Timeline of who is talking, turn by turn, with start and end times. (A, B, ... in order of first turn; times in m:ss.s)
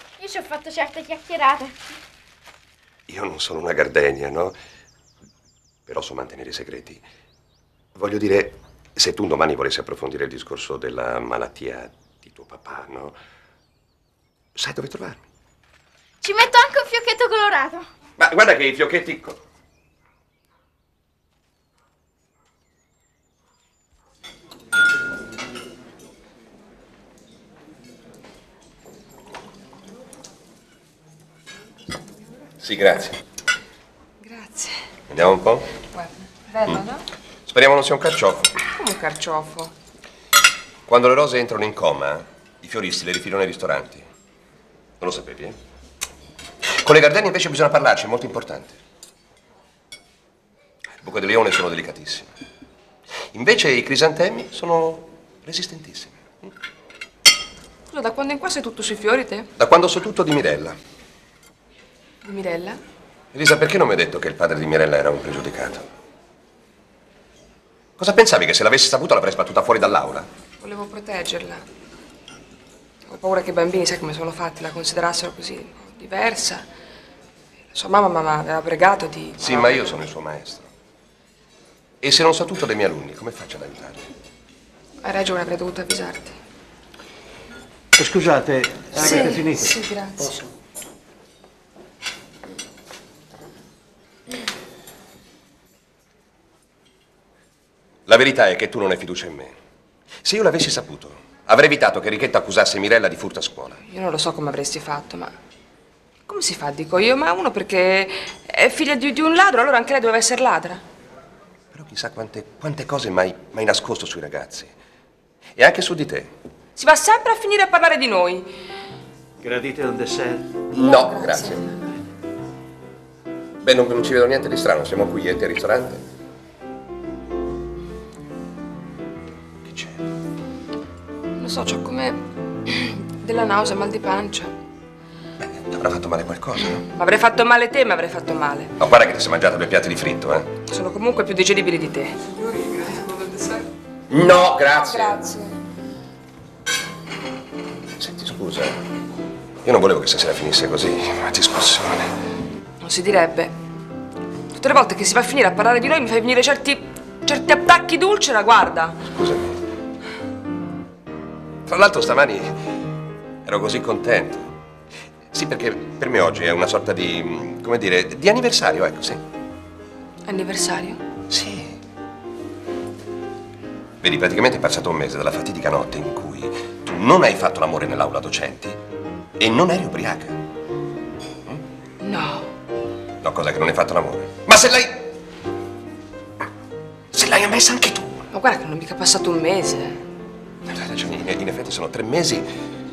0:00.2-0:01.8 A
0:03.1-0:04.6 B
0:05.9-0:07.0 B
0:07.9-0:13.2 B
0:14.5-0:15.2 B
0:16.2-0:17.9 A
0:18.2-0:19.4 B
0:32.6-0:33.2 B
0:34.2-0:34.8 C
0:35.1-0:35.7 B
0:35.9-0:37.0 C
0:37.5-0:38.5 B
0:38.7-0:39.7 C
0:40.9-0:44.1 B
0:45.0-0:45.6 B
0:46.7-0:48.8 B
0:51.0-0:52.3 B
0:53.3-0:56.5 B
0:57.9-0:59.5 C
0:59.6-1:00.8 B
1:02.2-1:02.8 C
1:03.3-1:05.9 B
1:08.0-1:10.3 B
1:10.6-1:11.6 C
1:13.1-1:16.6 C
1:17.7-1:19.8 C
1:19.4-1:20.7 B
1:22.0-1:24.1 B
1:25.0-1:26.4 C
1:28.2-1:28.7 D
1:28.9-1:30.3 C
1:29.2-1:29.7 D
1:38.1-1:39.6 B
1:40.2-1:43.8 B
1:43.9-1:45.3 C
1:46.3-1:50.8 C
1:51.7-1:54.7 B
1:55.6-1:56.3 B
1:56.8-1:58.5 C
1:59.4-2:00.4 D
2:00.7-2:01.6 B
2:00.8-2:01.8 C
2:03.6-2:06.0 B
2:09.6-2:10.0 B
2:11.4-2:14.5 C
2:15.4-2:16.8 B
2:16.9-2:18.7 C
2:18.8-2:20.5 B
2:20.7-2:23.6 C
2:24.1-2:25.2 B
2:24.3-2:25.5 C
2:28.0-2:28.8 B
2:29.6-2:32.1 B
2:32.8-2:33.5 C
2:34.5-2:39.0 C
2:39.1-2:39.6 B
2:41.7-2:42.6 B
2:43.4-2:44.6 B
2:45.3-2:49.2 B
2:50.2-2:51.0 C
2:51.3-2:51.8 B
2:54.0-2:58.8 B
2:59.4-3:00.4 B
3:02.0-3:02.5 C
3:03.2-3:05.0 B
3:07.1-3:08.2 B
3:08.3-3:10.0 C
3:10.7-3:12.5 B